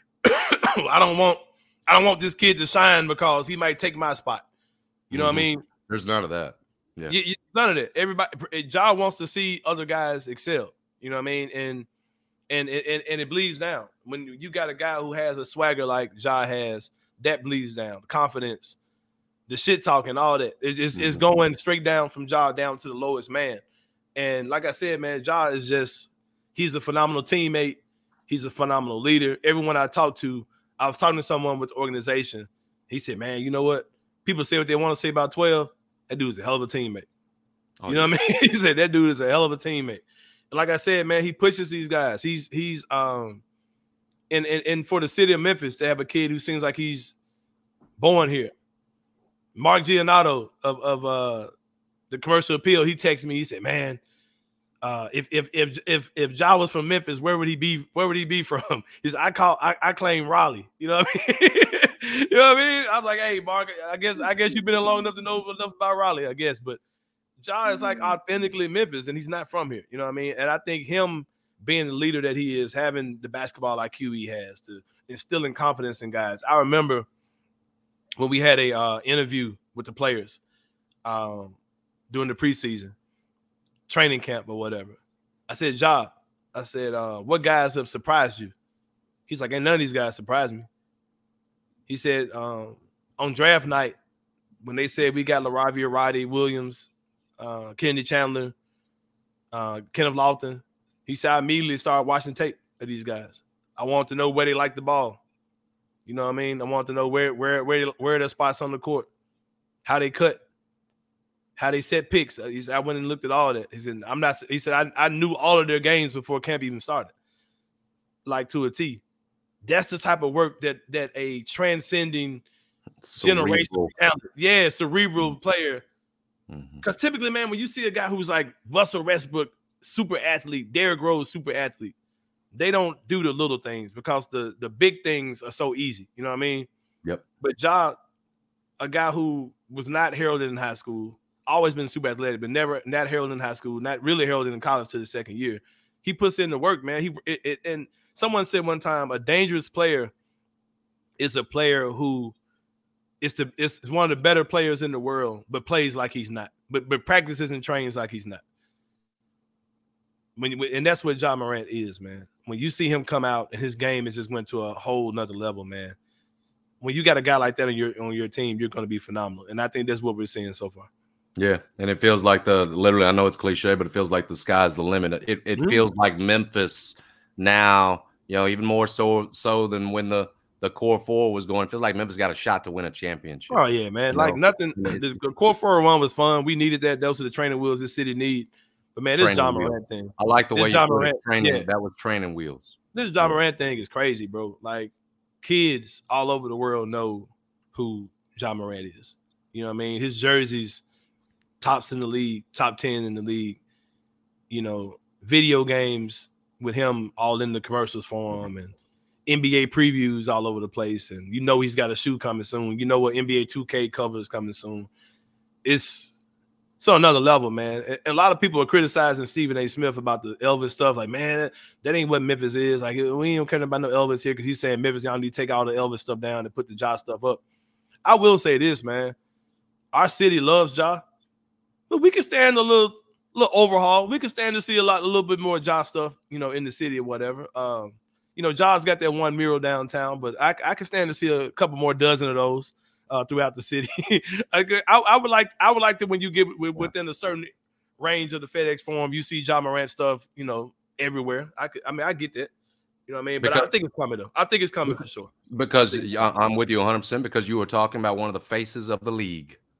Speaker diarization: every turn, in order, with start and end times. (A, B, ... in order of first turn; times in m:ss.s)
0:00.2-0:04.4 A
0:05.1-0:05.6 A
0:05.1-0:07.1 B
0:07.1-0:11.9 A
0:12.5-0:18.8 A
0:19.5-0:23.6 A
0:20.9-0:21.2 B
0:24.1-0:37.1 A
0:37.8-0:38.1 B
0:37.9-0:43.4 A
0:44.3-0:47.1 A
0:48.0-0:48.5 A
0:49.5-0:51.5 A
0:52.1-0:54.0 A
0:54.8-1:06.8 A
1:07.4-1:17.1 A
1:18.2-1:20.4 A
1:21.0-1:21.6 A
1:22.1-1:22.9 A
1:23.9-1:28.5 A
1:29.3-1:30.7 A
1:31.9-1:34.0 A
1:34.6-1:38.5 A
1:39.5-1:45.2 A
1:46.0-1:49.1 A
1:49.8-1:50.4 A
1:51.6-1:57.1 A
1:58.2-1:59.0 A
1:59.6-2:02.4 A
2:03.0-2:03.9 B
2:03.2-2:05.8 A
2:06.5-2:06.8 B
2:06.8-2:11.9 A
2:12.5-2:16.7 A
2:17.4-2:18.0 A
2:18.8-2:30.1 A
2:31.2-2:32.3 A
2:33.2-2:38.4 A
2:40.4-2:46.0 A
2:46.8-2:50.9 A
2:51.4-3:05.2 B
3:03.5-3:11.7 A
3:09.1-3:13.4 B
3:12.9-3:20.8 A
3:21.6-3:23.6 A
3:24.5-3:28.7 A
3:29.2-3:34.9 A
3:35.6-3:36.1 A
3:36.8-3:47.4 A
3:48.0-3:49.1 A
3:49.9-3:51.0 A
3:51.9-4:12.5 A
4:13.1-4:15.3 A
4:13.4-4:13.7 B
4:14.9-4:19.6 B